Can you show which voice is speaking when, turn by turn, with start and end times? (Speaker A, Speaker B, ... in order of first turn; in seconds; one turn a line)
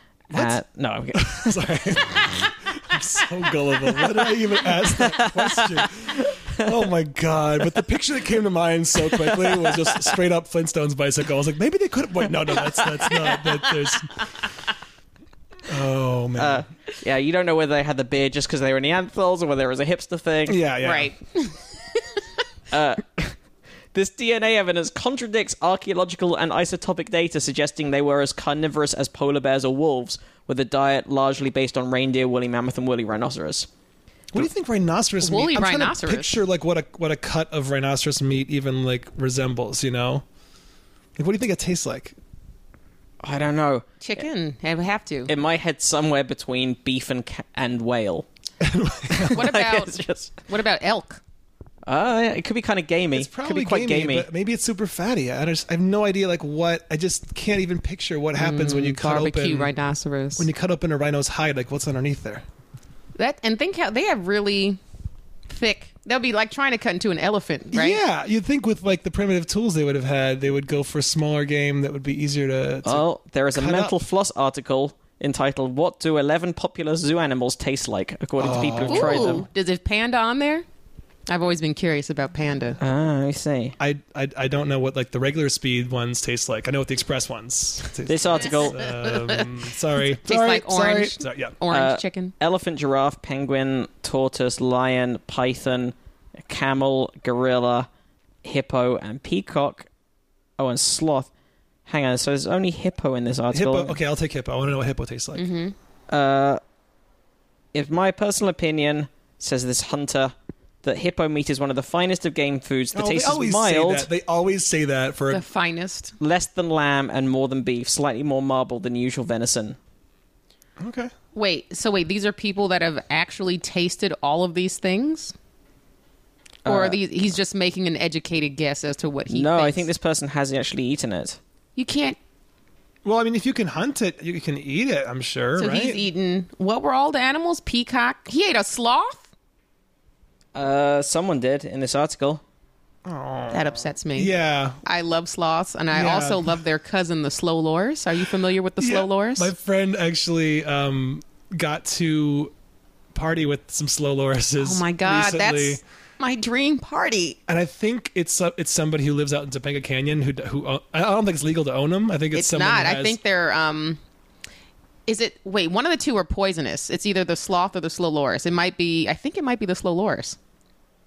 Speaker A: 0.3-2.3
Speaker B: 0.3-0.6
Speaker B: 1.1-14.2
Speaker A: 4.0-6.7
Speaker A: 9.1-10.2
Speaker A: 12.8-13.6
Speaker B: 15.7-16.6
Speaker A: 16.4-20.6
Speaker B: 20.5-21.1
Speaker C: 20.8-22.2
Speaker A: 22.7-23.4
Speaker A: 23.9-33.7
Speaker B: 34.3-40.2
Speaker C: 35.2-36.4
Speaker B: 41.2-42.2
Speaker A: 43.2-43.9
Speaker C: 44.0-45.3
Speaker A: 45.3-48.3
Speaker B: 48.6-49.5
Speaker A: 49.1-50.4
Speaker C: 49.3-51.2
Speaker A: 51.9-54.3
Speaker B: 53.1-59.7
Speaker C: 58.4-60.5
Speaker B: 60.4-62.5
Speaker C: 63.2-64.8
Speaker C: 65.5-68.0
Speaker B: 67.7-73.0
Speaker A: 72.8-79.5
Speaker B: 73.5-74.0
Speaker B: 78.4-79.4
Speaker C: 78.9-80.7
Speaker C: 81.3-82.8
Speaker A: 82.8-83.8
Speaker B: 83.8-91.6
Speaker A: 88.1-88.9
Speaker C: 88.8-89.5
Speaker C: 90.1-92.3
Speaker A: 91.7-97.9
Speaker A: 98.4-99.9
Speaker A: 100.6-101.3
Speaker A: 101.9-104.0
Speaker B: 103.5-105.5
Speaker C: 105.3-105.8
Speaker A: 106.1-106.6
Speaker A: 107.7-114.1
Speaker B: 112.9-115.4
Speaker C: 115.3-116.2
Speaker A: 116.2-119.8
Speaker B: 120.8-121.1
Speaker C: 121.3-125.3
Speaker A: 126.7-127.0
Speaker C: 126.7-129.9
Speaker A: 129.3-131.4
Speaker C: 131.8-132.2
Speaker B: 133.1-136.0
Speaker C: 135.6-139.3
Speaker A: 140.6-142.4
Speaker B: 143.1-144.8
Speaker C: 143.5-144.3
Speaker C: 144.8-149.5
Speaker B: 145.9-146.6
Speaker B: 148.8-152.5
Speaker B: 153.1-155.8
Speaker C: 154.6-157.4
Speaker B: 157.5-163.2
Speaker C: 162.3-164.0
Speaker C: 165.1-170.4